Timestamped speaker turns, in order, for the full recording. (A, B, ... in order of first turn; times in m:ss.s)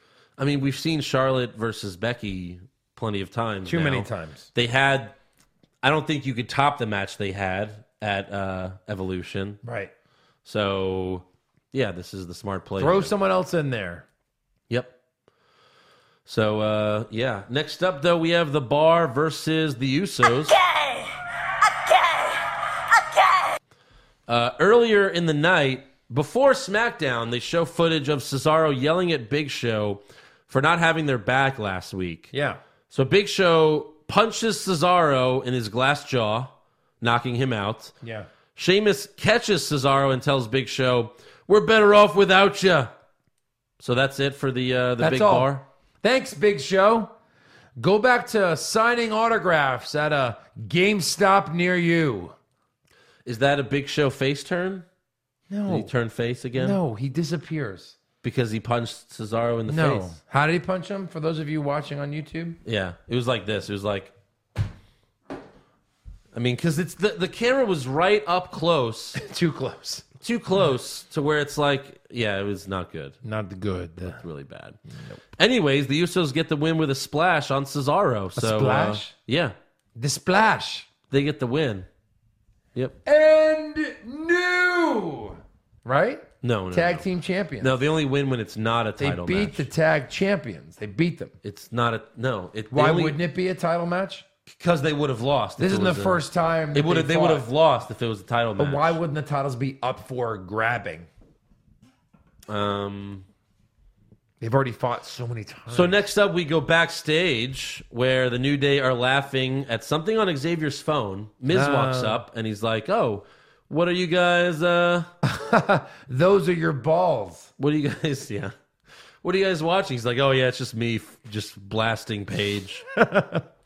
0:00.4-0:05.2 A
0:03.7-0:04.5 B
0:05.8-0:09.6 A
0:09.6-0:09.9 B
0:10.4-0:13.1 A
0:12.8-0:14.1 B
0:14.7-0:14.9 A
0:16.3-0:20.6 A
0:24.3-0:32.3 A
0:32.3-0:32.6 B
0:32.9-0:38.0 A
0:38.0-0:38.3 B
0:38.6-0:42.9 A
0:43.8-0:45.6 A
0:45.0-0:47.1 B
0:47.8-0:52.4 B
0:53.2-0:54.9 A
0:55.5-0:55.9 B
0:55.7-0:56.8 A
0:56.6-0:58.0 B
0:58.2-1:00.2 A
0:59.7-1:02.6 B
1:02.6-1:04.1 A
1:06.3-1:09.2 A
1:09.2-1:10.1 B
1:10.2-1:13.2 A
1:13.2-1:14.2 B
1:14.0-1:14.8 A
1:14.9-1:15.2 B
1:15.4-1:19.6 A
1:18.4-1:19.1 B
1:20.0-1:20.9 B
1:21.1-1:21.9 A
1:23.0-1:27.7 B
1:26.4-1:27.0 A
1:27.6-1:29.7 A
1:29.0-1:31.3 B
1:31.4-1:33.2 A
1:32.7-1:34.2 B
1:34.5-1:39.0 A
1:35.6-1:37.5 B
1:38.6-1:41.1 B
1:42.5-1:43.3 A
1:44.4-1:46.0 B
1:45.7-1:55.1 A
1:51.5-1:52.2 B
1:55.2-1:57.5 B
1:57.6-1:58.5 A
1:59.2-2:02.8 A
2:03.0-2:03.5 B